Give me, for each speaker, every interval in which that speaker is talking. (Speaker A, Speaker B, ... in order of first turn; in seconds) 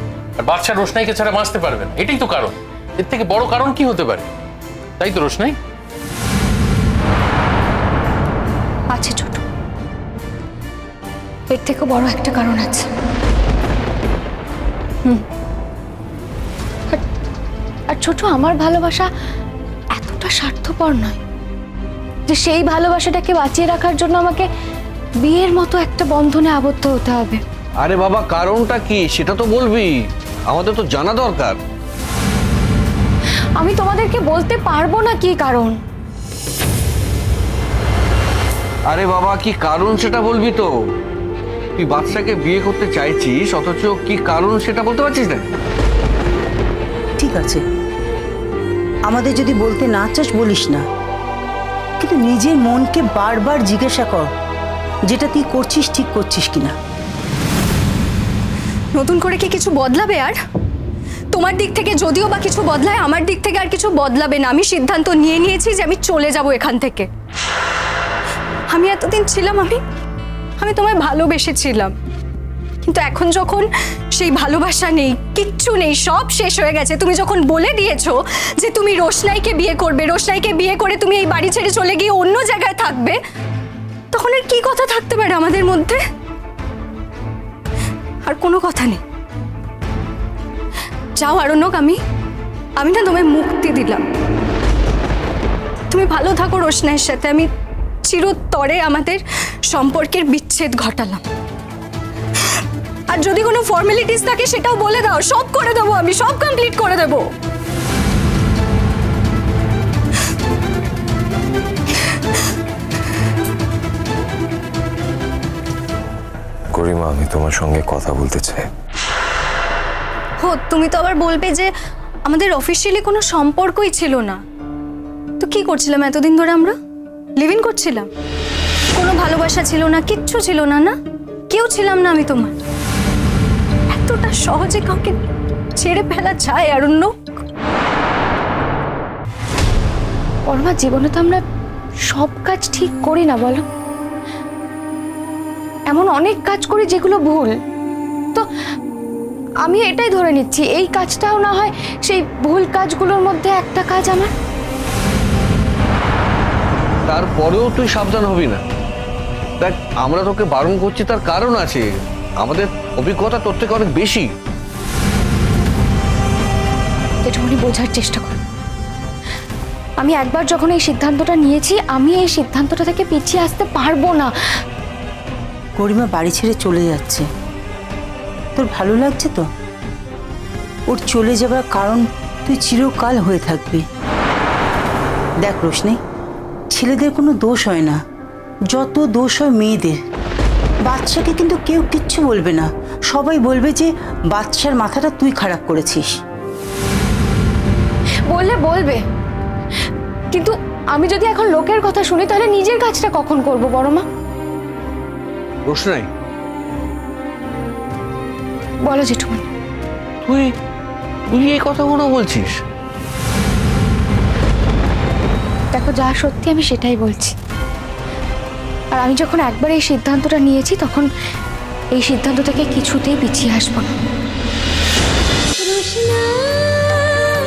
Speaker A: 0.4-4.2, 5.0-5.5
Speaker B: 9.0-9.4, 11.5-12.9, 17.9-19.1, 19.9-21.2, 22.3-24.5, 25.2-27.4, 33.6-35.8, 140.5-141.4, 142.1-143.6, 145.9-147.5, 149.6-154.3, 167.2-168.4, 170.0-174.6, 198.3-199.0, 200.3-204.0, 208.8-209.4, 215.7-217.3, 218.9-221.1, 221.9-223.9
Speaker C: 27.8-29.9, 30.5-31.6, 38.9-40.7, 41.8-45.5, 157.1-158.6, 159.6-161.9, 162.4-164.3, 205.7-206.1, 210.2-210.5, 211.3-212.6
Speaker D: 47.2-47.6, 49.0-50.8, 52.0-54.3, 55.1-56.7, 175.8-177.2, 178.6-179.4, 180.9-183.8, 185.4-186.0, 186.7-188.0, 188.7-190.0, 190.8-196.1
Speaker E: 58.9-60.4, 61.3-67.1, 68.7-69.8, 70.6-71.9, 72.8-83.2, 84.1-86.0, 88.2-89.0, 91.2-92.0, 92.8-94.0, 95.9-97.5, 98.0-101.2, 103.1-107.2, 120.4-121.7, 122.2-124.4, 125.4-126.7, 127.4-128.1, 128.9-130.9, 131.5-132.5, 133.9-135.2, 135.8-137.1
Speaker F: 116.7-118.7